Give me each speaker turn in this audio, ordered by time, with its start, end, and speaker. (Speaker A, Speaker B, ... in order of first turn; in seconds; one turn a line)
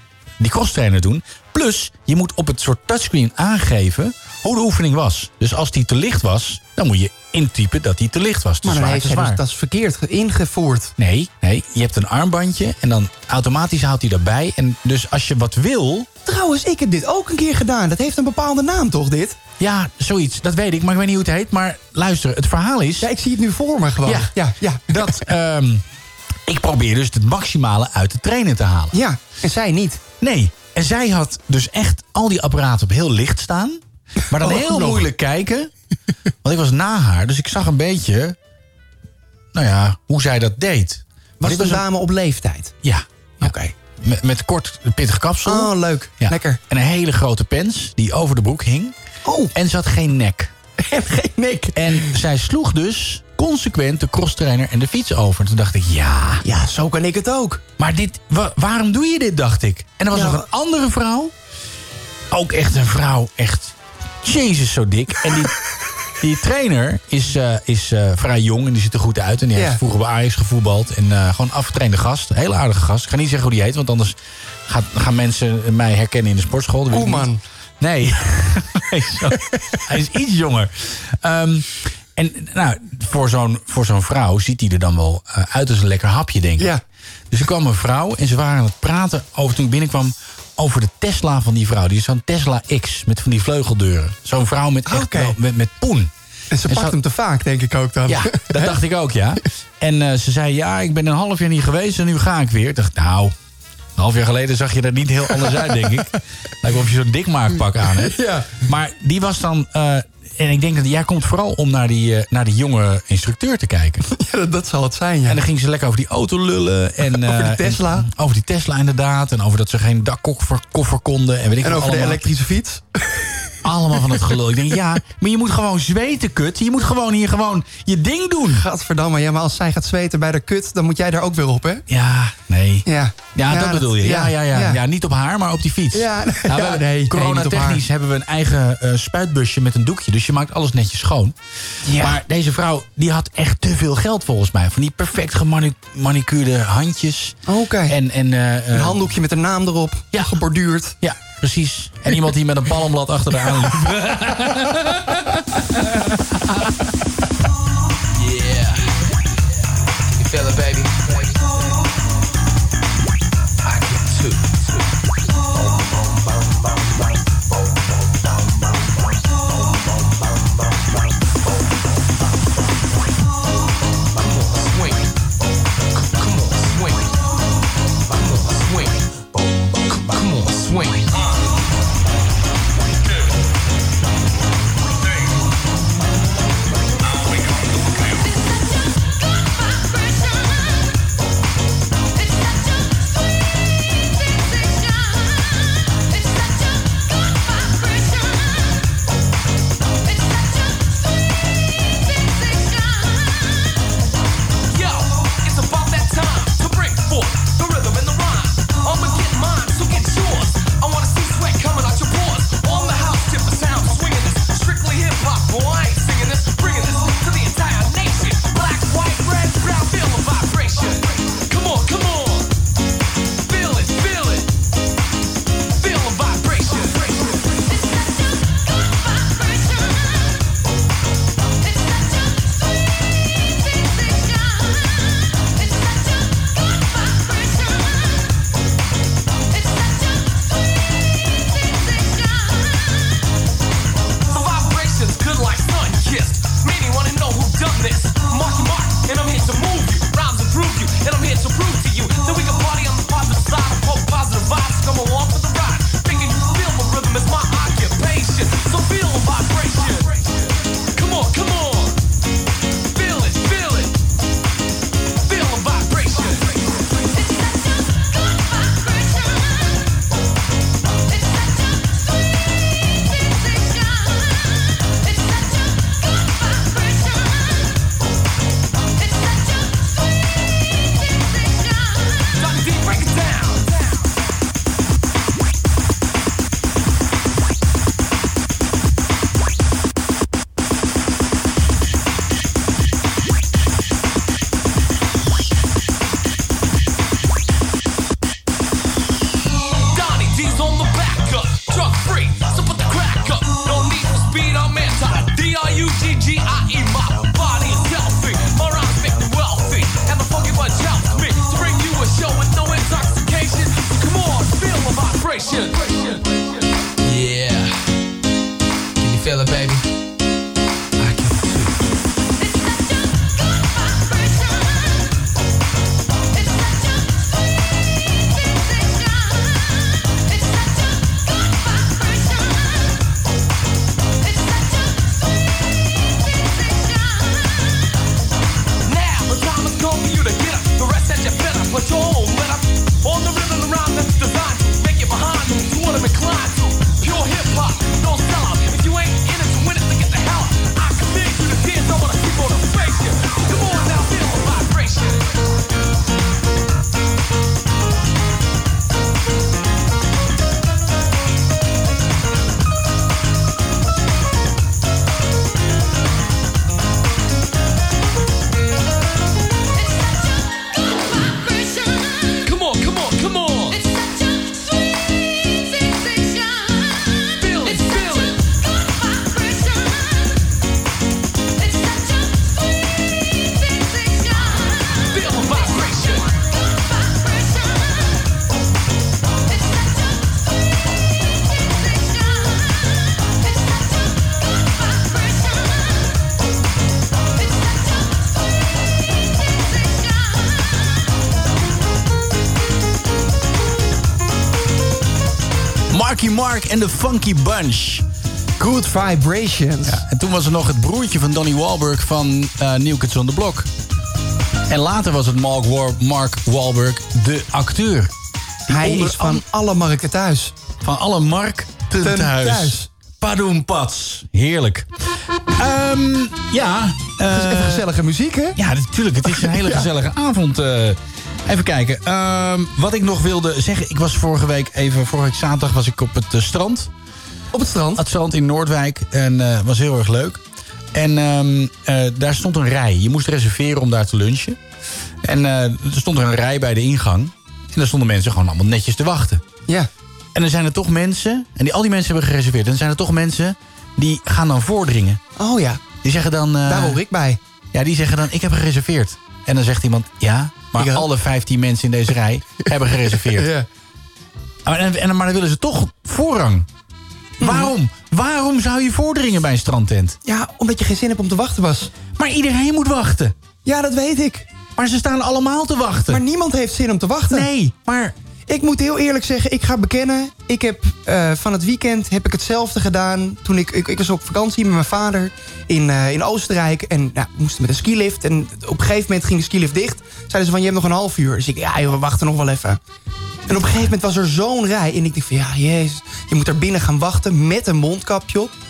Speaker A: 0.4-9.4
Speaker B: 8.6-10.9
Speaker A: 11.0-16.1
Speaker B: 16.2-19.4
Speaker A: 19.6-23.1
Speaker B: 23.0-25.2
Speaker A: 24.0-24.3
Speaker A: 24.9-25.8
Speaker A: 26.5-28.9
Speaker B: 28.9-30.0
Speaker A: 30.2-35.7
Speaker B: 34.3-35.1
Speaker A: 36.4-38.4
Speaker A: 39.5-41.8
Speaker B: 41.4-42.7
Speaker A: 42.8-48.9
Speaker B: 43.4-43.7
Speaker B: 45.4-46.6
Speaker B: 49.2-49.5
Speaker A: 49.5-50.5
Speaker B: 50.8-52.1
Speaker A: 51.7-56.4
Speaker B: 56.4-57.6
Speaker A: 57.8-61.3
Speaker B: 60.1-60.5
Speaker A: 62.3-65.6
Speaker A: 66.2-74.2
Speaker B: 69.5-69.8
Speaker A: 74.7-77.3
Speaker B: 76.9-77.4
Speaker A: 77.8-86.7
Speaker A: 87.3-96.1
Speaker B: 94.8-95.4
Speaker B: 96.5-98.8
Speaker A: 96.7-97.0
Speaker A: 98.1-103.3
Speaker A: 104.0-114.1
Speaker B: 107.8-108.6
Speaker B: 114.1-115.4
Speaker A: 115.3-122.2
Speaker B: 117.1-118.1
Speaker B: 121.6-123.5
Speaker A: 123.6-128.6
Speaker B: 128.4-131.8
Speaker A: 131.9-141.3
Speaker B: 132.8-134.8
Speaker B: 135.9-137.8
Speaker B: 141.8-142.2
Speaker A: 141.9-147.4
Speaker B: 147.5-147.9
Speaker A: 147.9-149.0
Speaker B: 148.7-150.9
Speaker A: 151.0-156.5
Speaker C: 158.1-161.8
Speaker C: 163.6-164.9
Speaker C: 174.1-175.1
Speaker C: 176.2-177.1
Speaker C: 178.1-179.0
Speaker C: 179.9-181.1
Speaker C: 204.7-222.5
Speaker C: 223.4-224.5
Speaker C: 225.8-227.4
Speaker C: 244.3-262.0
Speaker C: 262.9-264.0
Speaker C: 265.2-266.7
Speaker C: 282.3-284.0
Speaker C: 299.9-317.8
Speaker C: 319.0-319.9
Speaker C: 321.0-321.9
Speaker C: 338.8-355.4
Speaker C: 372.4-373.8
Speaker C: 377.4-378.4
Speaker C: 385.0-386.3
Speaker A: 405.9-408.0
Speaker B: 408.6-410.0
Speaker A: 409.9-413.7
Speaker A: 414.7-418.1
Speaker A: 418.7-419.4
Speaker B: 418.7-420.5
Speaker A: 420.8-424.9
Speaker B: 422.0-422.9
Speaker A: 425.5-427.9
Speaker B: 427.2-428.6
Speaker A: 428.6-436.9
Speaker B: 429.3-429.9
Speaker B: 437.5-438.0
Speaker A: 437.9-440.4
Speaker A: 440.9-444.6
Speaker A: 445.2-449.4
Speaker A: 450.3-455.2
Speaker B: 455.4-455.8
Speaker A: 456.0-457.0
Speaker B: 456.6-457.4
Speaker A: 457.7-463.5
Speaker B: 460.7-461.1
Speaker B: 463.1-463.7
Speaker A: 464.6-466.7
Speaker B: 467.4-467.7
Speaker A: 467.4-470.2
Speaker B: 470.2-471.9
Speaker A: 472.1-473.3
Speaker B: 473.6-474.5
Speaker A: 474.8-476.2
Speaker B: 476.1-477.5
Speaker A: 477.3-478.1
Speaker B: 478.5-492.8
Speaker B: 493.5-498.5